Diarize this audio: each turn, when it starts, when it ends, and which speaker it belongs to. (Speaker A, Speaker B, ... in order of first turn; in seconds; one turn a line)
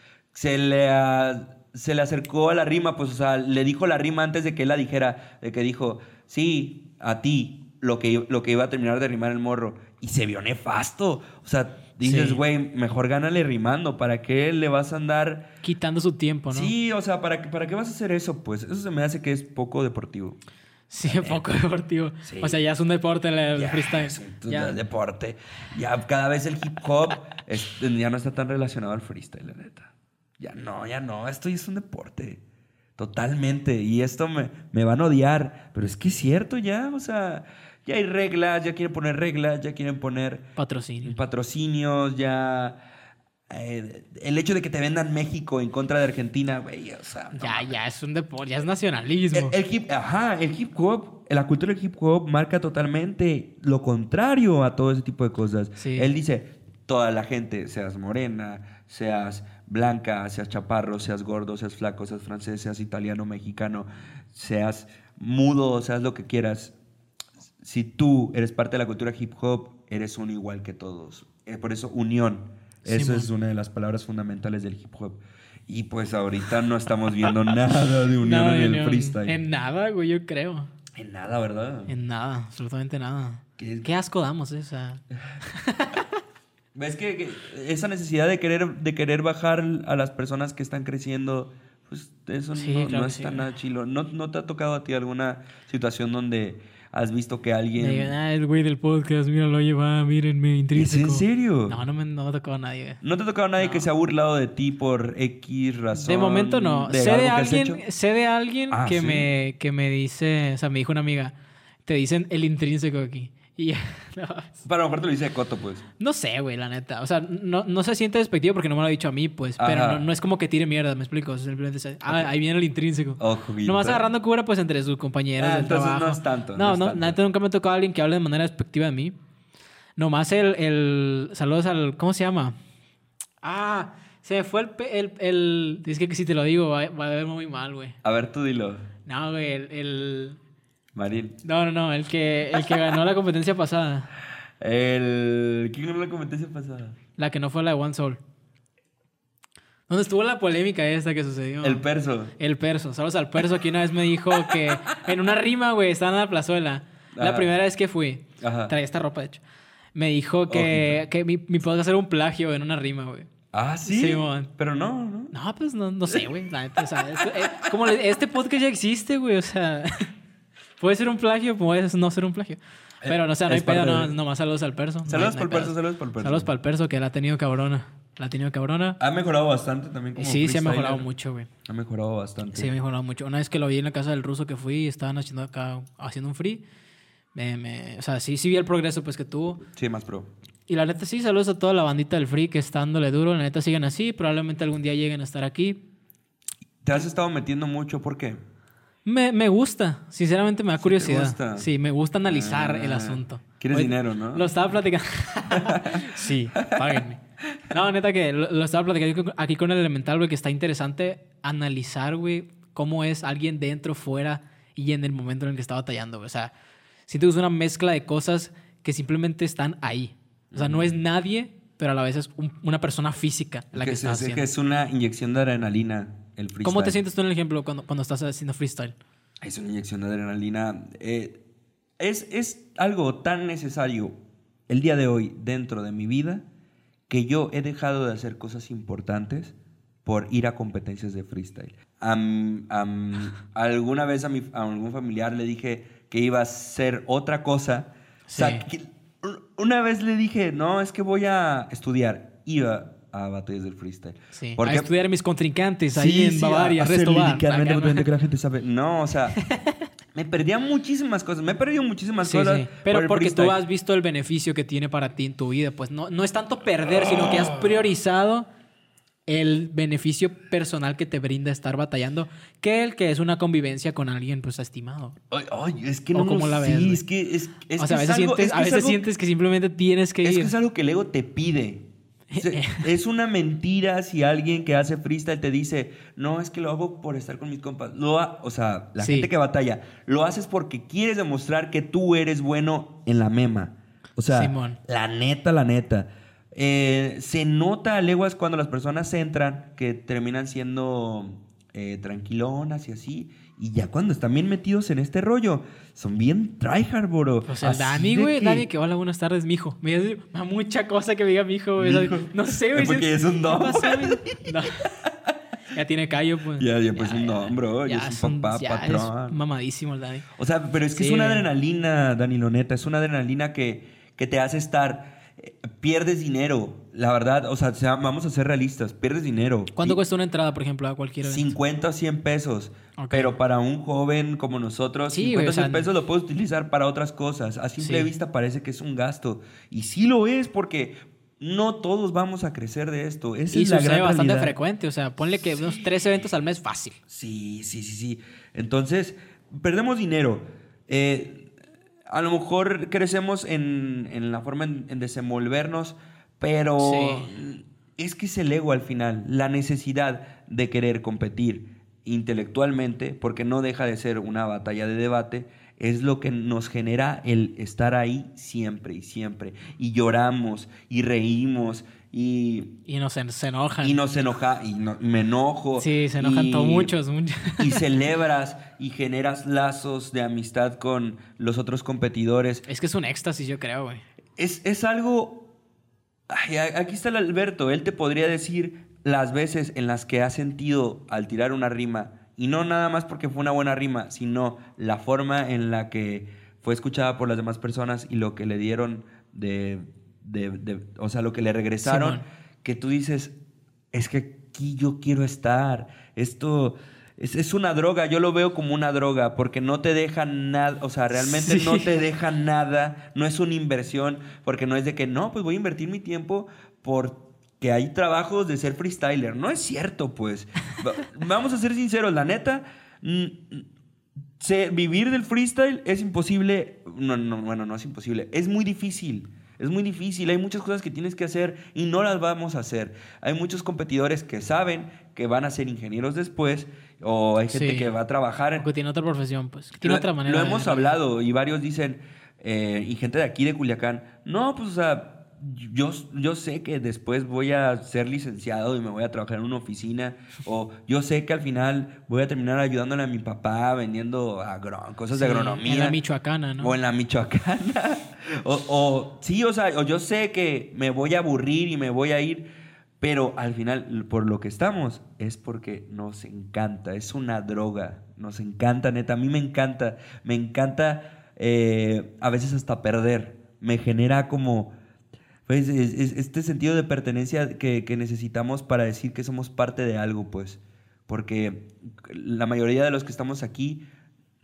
Speaker A: 0.3-15.5
Speaker B: 12.0-12.4
Speaker B: 15.6-16.7
Speaker A: 16.5-20.4
Speaker B: 20.9-24.8
Speaker A: 21.0-21.5
Speaker A: 22.2-22.6
Speaker A: 23.5-32.4
Speaker A: 33.0-40.5
Speaker B: 40.6-41.2
Speaker A: 41.0-42.8
Speaker A: 43.5-47.8
Speaker B: 47.3-49.5
Speaker A: 49.3-66.7
Speaker B: 55.8-56.1
Speaker A: 67.6-79.4
Speaker B: 72.8-73.3
Speaker B: 78.2-80.7
Speaker A: 80.9-81.9
Speaker B: 81.9-86.1
Speaker A: 83.6-83.9
Speaker A: 86.7-98.1
Speaker B: 92.5-93.5
Speaker B: 97.8-103.0
Speaker A: 100.7-101.8
Speaker A: 103.0-107.8
Speaker B: 103.6-103.9
Speaker B: 105.9-111.3
Speaker A: 108.7-109.3
Speaker B: 111.8-114.6
Speaker A: 114.6-115.8
Speaker B: 116.0-129.1
Speaker A: 119.6-120.0
Speaker A: 123.2-124.0
Speaker A: 125.4-127.2
Speaker B: 130.0-132.6
Speaker B: 133.4-137.9
Speaker A: 138.0-138.9
Speaker B: 139.1-140.4
Speaker A: 140.9-141.4
Speaker B: 141.4-144.1
Speaker A: 144.6-147.0
Speaker B: 147.2-148.2
Speaker B: 149.9-151.8
Speaker A: 151.6-152.3
Speaker B: 152.4-159.4
Speaker A: 154.3-154.8
Speaker A: 157.1-157.5
Speaker A: 158.4-158.7
Speaker B: 159.9-163.3
Speaker A: 160.5-161.0
Speaker A: 163.5-165.3
Speaker B: 163.8-164.5
Speaker B: 165.3-170.1
Speaker A: 167.2-167.7
Speaker B: 170.8-179.0
Speaker A: 173.0-174.1
Speaker A: 175.1-176.5
Speaker A: 179.0-181.1
Speaker B: 180.2-181.5
Speaker A: 181.7-182.7
Speaker B: 182.5-186.6
Speaker B: 187.3-189.6
Speaker A: 189.7-190.3
Speaker B: 190.7-195.8
Speaker A: 196.8-198.4
Speaker B: 199.0-207.2
Speaker A: 200.8-201.7
Speaker A: 202.2-204.5
Speaker A: 205.5-206.8
Speaker B: 207.7-216.5
Speaker B: 217.1-224.4
Speaker A: 220.5-220.9
Speaker A: 223.7-227.0
Speaker B: 226.6-228.9
Speaker A: 229.4-231.4
Speaker A: 232.0-234.2
Speaker A: 234.7-236.4
Speaker A: 237.1-254.9
Speaker B: 248.3-248.6
Speaker B: 254.3-258.1
Speaker A: 255.9-259.4
Speaker A: 260.1-263.6
Speaker B: 262.2-268.5
Speaker A: 266.9-267.8
Speaker B: 269.3-275.2
Speaker A: 275.3-279.0
Speaker B: 276.1-277.0
Speaker B: 277.8-280.5
Speaker A: 280.2-308.7
Speaker B: 282.3-282.9
Speaker B: 289.0-289.3
Speaker B: 294.3-294.8
Speaker B: 307.4-315.0
Speaker A: 311.8-315.1
Speaker B: 315.7-320.2
Speaker A: 316.6-319.4
Speaker A: 320.4-330.0
Speaker B: 320.9-321.5
Speaker B: 329.8-331.5
Speaker A: 331.2-344.5
Speaker B: 333.0-333.3
Speaker B: 335.1-335.9
Speaker B: 337.8-338.1
Speaker B: 343.5-347.0
Speaker A: 347.1-351.5
Speaker A: 352.1-372.7
Speaker B: 356.8-357.3
Speaker B: 372.9-374.0
Speaker A: 373.8-376.9
Speaker B: 375.8-377.8
Speaker A: 377.6-382.6
Speaker B: 382.7-384.0
Speaker A: 384.4-385.4
Speaker A: 386.3-403.3
Speaker B: 401.8-402.2
Speaker A: 403.9-423.7
Speaker B: 411.2-411.9
Speaker A: 424.4-438.7
Speaker B: 437.5-437.9
Speaker B: 438.6-440.9
Speaker A: 439.8-456.0
Speaker B: 455.1-456.7
Speaker A: 456.6-462.5
Speaker A: 463.0-474.7
Speaker A: 475.4-483.8